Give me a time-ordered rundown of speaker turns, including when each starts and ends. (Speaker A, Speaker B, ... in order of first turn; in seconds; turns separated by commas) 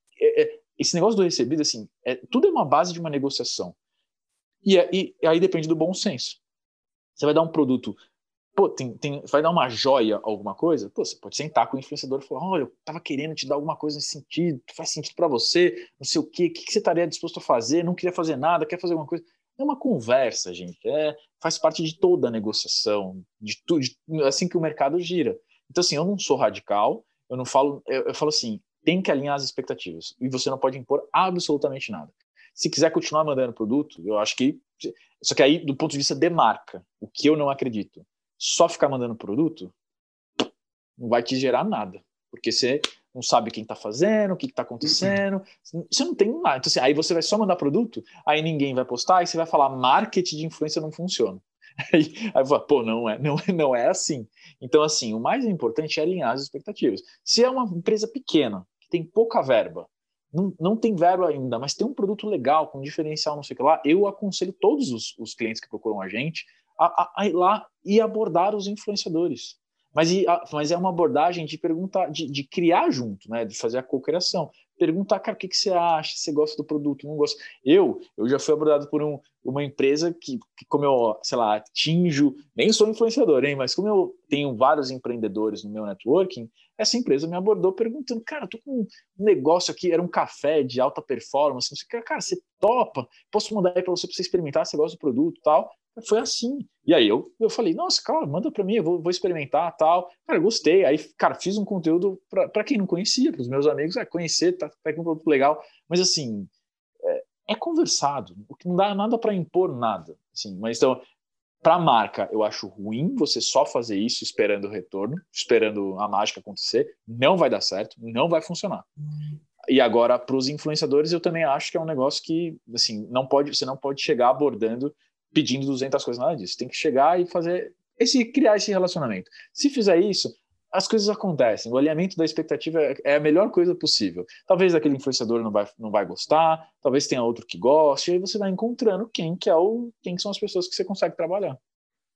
Speaker A: 0.2-3.8, Speaker A: 4.6-6.4, Speaker A: 7.2-8.0, Speaker A: 8.5-39.7, Speaker A: 41.0-106.5, Speaker A: 107.0-111.0, Speaker A: 111.6-118.9, Speaker A: 119.7-141.6